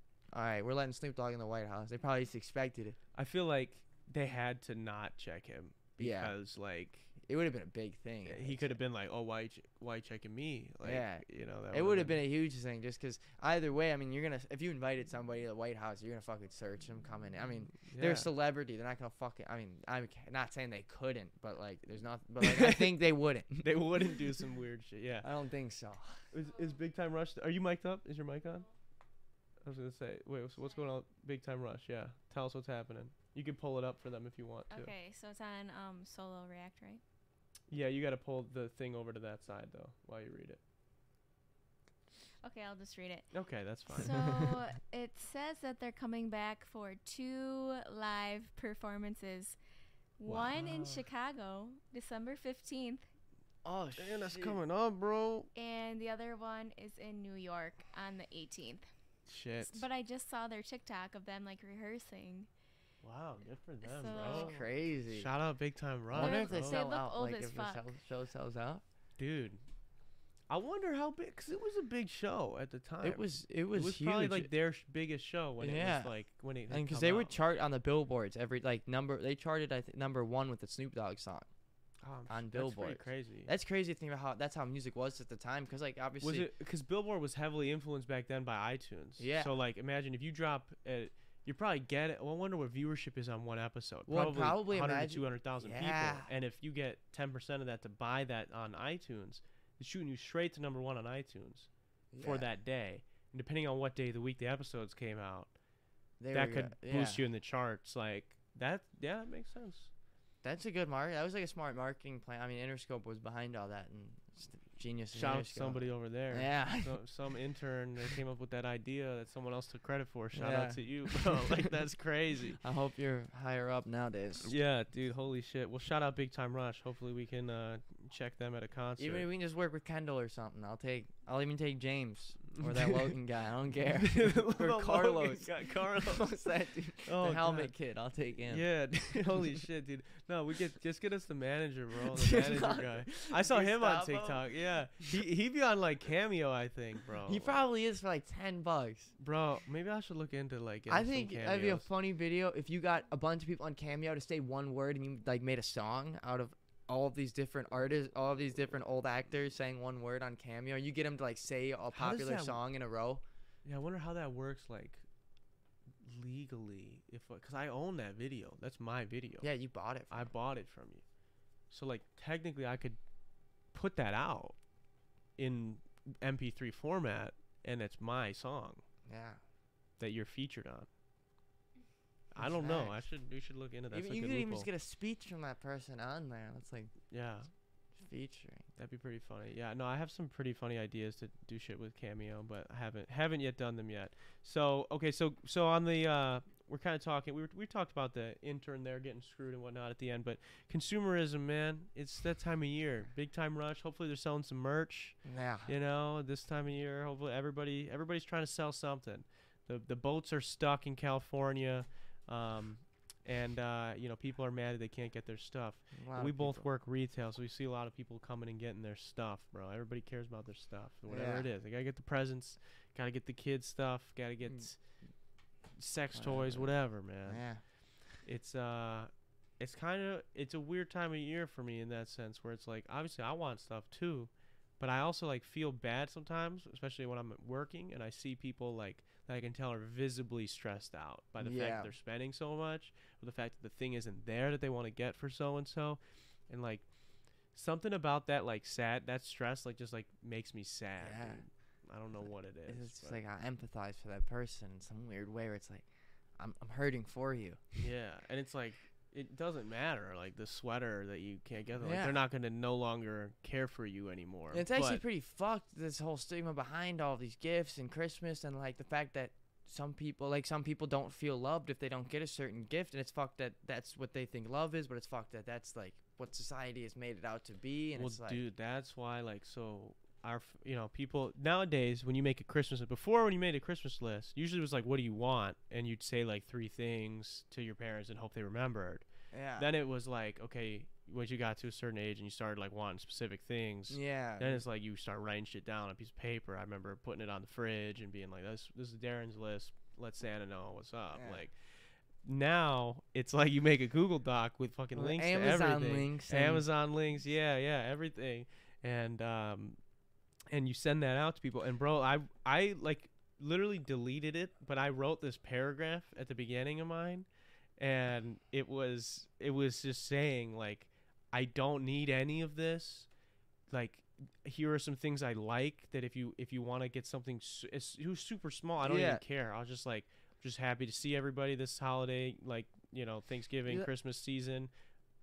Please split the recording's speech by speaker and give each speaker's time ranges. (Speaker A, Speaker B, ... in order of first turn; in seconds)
Speaker A: 0.3-3.0, 6.0-6.3, 7.2-8.8, 10.8-24.2, 25.2-26.3, 53.6-54.6, 64.1-65.3, 66.1-68.8, 73.0-74.5, 75.6-81.5, 82.3-86.5, 89.2-89.5, 94.1-96.3, 102.1-102.5, 106.2-107.2, 110.4-117.3, 120.3-121.6, 122.6-124.5, 129.0-139.4, 142.0-144.6, 147.2-149.1, 150.9-163.2, 169.4-170.3, 179.1-179.4, 182.4-183.2, 183.9-187.1, 187.9-188.7, 205.2-205.7, 215.9-216.7, 221.1-221.5, 224.4-225.2, 226.1-227.8, 241.4-241.9, 251.0-251.5, 252.1-257.8, 261.8-262.2, 264.5-278.4, 289.3-289.7, 293.9-294.6, 301.1-301.4, 304.9-306.7, 328.8-329.2
Speaker B: 3.1-7.1, 8.2-12.2, 17.8-18.3, 22.4-25.4, 26.3-28.7, 29.6-34.9, 37.7-40.6, 43.3-44.1, 50.3-50.9, 54.0-55.5, 59.2-59.9, 63.0-66.8, 69.2-69.6, 70.5-77.3, 82.0-83.5, 86.2-109.9, 115.1-122.6, 124.4-129.3, 132.5-133.1, 134.0-136.5, 137.0-137.8, 138.5-147.6, 149.2-151.8, 161.9-162.6, 163.6-165.0, 166.0-169.5, 170.1-171.1, 171.7-173.0, 173.7-174.6, 175.3-178.8, 180.0-180.9, 182.3-184.7, 187.1-187.5, 188.8-253.2, 257.8-265.0, 277.9-309.8, 310.5-323.1, 323.7-334.7
Speaker C: 26.4-26.8, 30.6-30.9, 34.7-37.0, 42.4-49.6, 50.2-53.1, 55.5-58.9, 59.6-62.5, 63.8-64.6, 66.2-67.8